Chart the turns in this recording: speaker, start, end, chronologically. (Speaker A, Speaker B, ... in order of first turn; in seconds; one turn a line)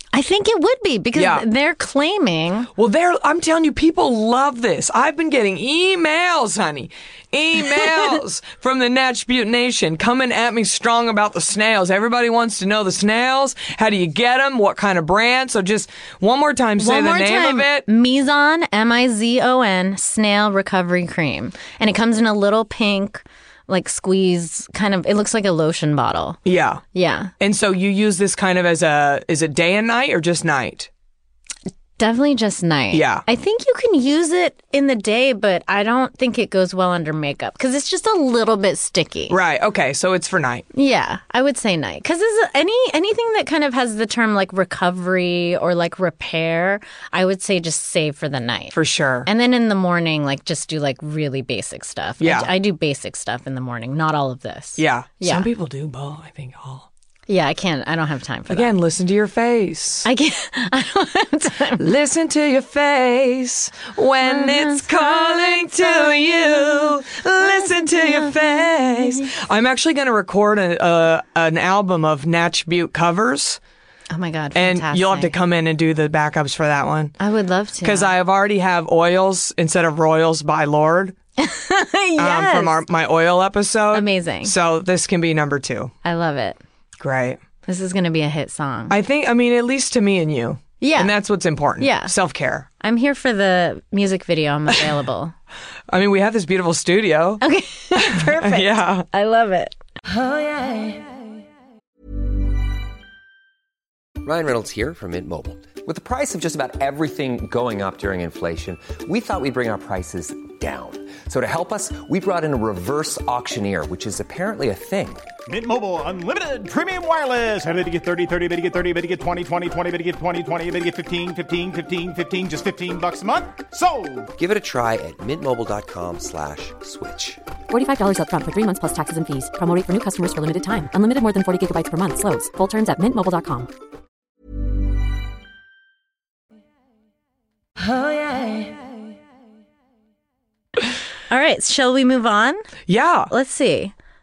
Speaker A: 0.1-2.7
Speaker B: 1.1-1.5
Speaker B: 2.8-17.9
Speaker A: 16.8-26.4
Speaker B: 26.4-26.8
Speaker A: 26.9-27.3
Speaker B: 27.4-30.9
Speaker A: 32.0-39.4
Speaker B: 32.9-33.2
Speaker B: 39.3-40.6
Speaker A: 40.7-55.5
Speaker B: 48.7-49.3
Speaker B: 52.2-52.5
Speaker B: 54.8-56.9
Speaker A: 57.3-58.7
Speaker B: 58.5-60.1
Speaker A: 60.0-61.9
Speaker B: 61.8-73.6
Speaker A: 64.2-69.3
Speaker A: 74.1-75.3
Speaker B: 74.5-77.2
Speaker A: 77.2-78.1
Speaker B: 77.8-81.2
Speaker A: 81.4-82.8
Speaker B: 82.2-85.9
Speaker A: 83.9-84.5
Speaker A: 86.0-86.6
Speaker B: 87.0-87.4
Speaker A: 87.7-89.0
Speaker B: 88.9-92.7
Speaker A: 90.8-91.1
Speaker A: 91.8-92.1
Speaker A: 92.8-95.3
Speaker B: 95.9-97.4
Speaker A: 97.4-99.8
Speaker B: 97.9-99.1
Speaker C: 104.2-115.3
Speaker D: 115.5-124.3
Speaker C: 124.3-127.4
Speaker E: 127.7-133.7
Speaker A: 141.3-142.7
Speaker B: 142.9-143.3
Speaker A: 143.3-143.9